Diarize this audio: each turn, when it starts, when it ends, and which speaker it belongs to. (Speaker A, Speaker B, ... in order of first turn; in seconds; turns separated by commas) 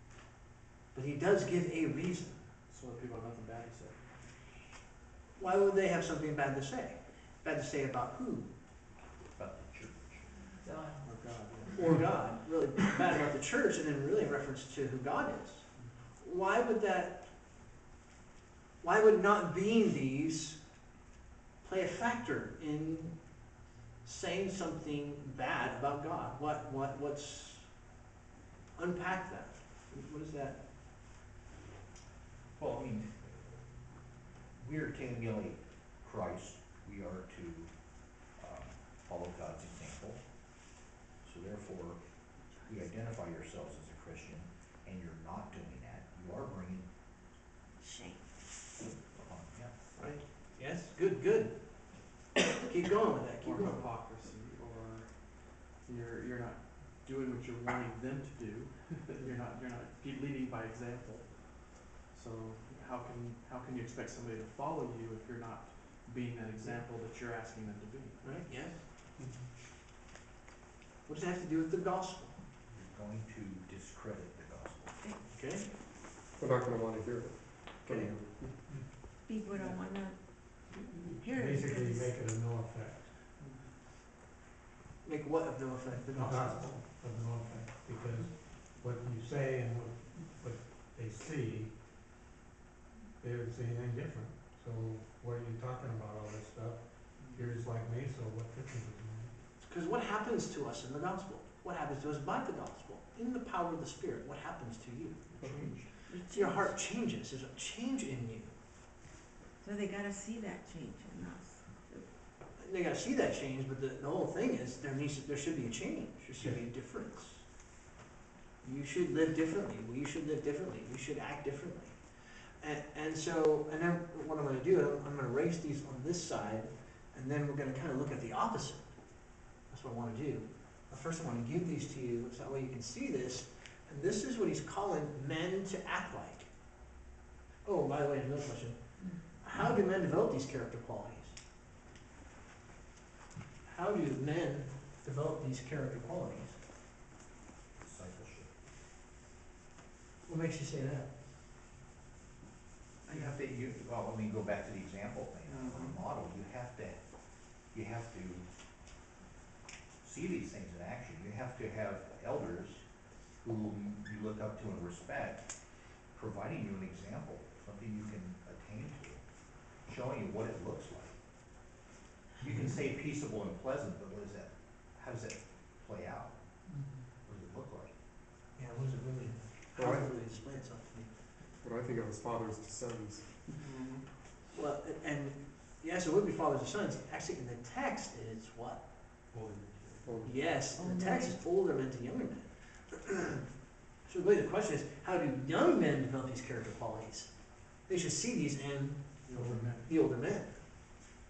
Speaker A: 0.9-2.5, Speaker B: 2.7-4.3, Speaker A: 5.4-8.5, Speaker C: 9.3-10.3, Speaker B: 11.0-12.1, Speaker A: 11.7-15.7, Speaker A: 16.2-17.3, Speaker A: 18.8-20.8, Speaker A: 21.6-27.7, Speaker A: 28.7-30.6, Speaker C: 32.6-33.5, Speaker C: 34.5-40.7, Speaker C: 41.2-46.9, Speaker D: 42.5-42.7, Speaker D: 47.8-48.7, Speaker C: 49.0-49.8, Speaker A: 50.0-52.1, Speaker A: 52.6-53.9, Speaker B: 53.4-68.6, Speaker A: 68.2-68.8, Speaker A: 71.0-72.4, Speaker C: 72.7-75.0, Speaker A: 75.3-75.7, Speaker E: 76.4-78.5, Speaker D: 79.2-82.1, Speaker B: 79.5-79.8, Speaker F: 81.1-83.1, Speaker B: 83.4-83.7, Speaker A: 85.0-86.8, Speaker F: 86.1-91.7, Speaker F: 93.2-99.3, Speaker B: 97.2-97.5, Speaker A: 99.6-108.5, Speaker B: 105.3-105.8, Speaker D: 106.1-106.7, Speaker D: 109.6-112.1, Speaker A: 112.5-117.5, Speaker A: 118.6-136.5, Speaker A: 137.6-141.4, Speaker D: 139.0-139.2, Speaker A: 143.7-146.6, Speaker C: 147.8-148.5, Speaker A: 150.2-151.1, Speaker C: 153.1-158.5, Speaker B: 155.5-156.0, Speaker C: 160.0-162.8, Speaker C: 163.4-171.2, Speaker C: 172.4-176.4, Speaker C: 177.2-177.9, Speaker A: 178.6-181.1, Speaker E: 179.8-180.1, Speaker E: 181.6-183.5, Speaker B: 183.6-184.1, Speaker A: 184.5-188.8, Speaker E: 190.0-190.4, Speaker A: 190.2-193.4, Speaker D: 190.7-191.4, Speaker A: 194.0-199.3, Speaker B: 199.3-199.8, Speaker F: 199.3-199.8, Speaker A: 199.8-200.5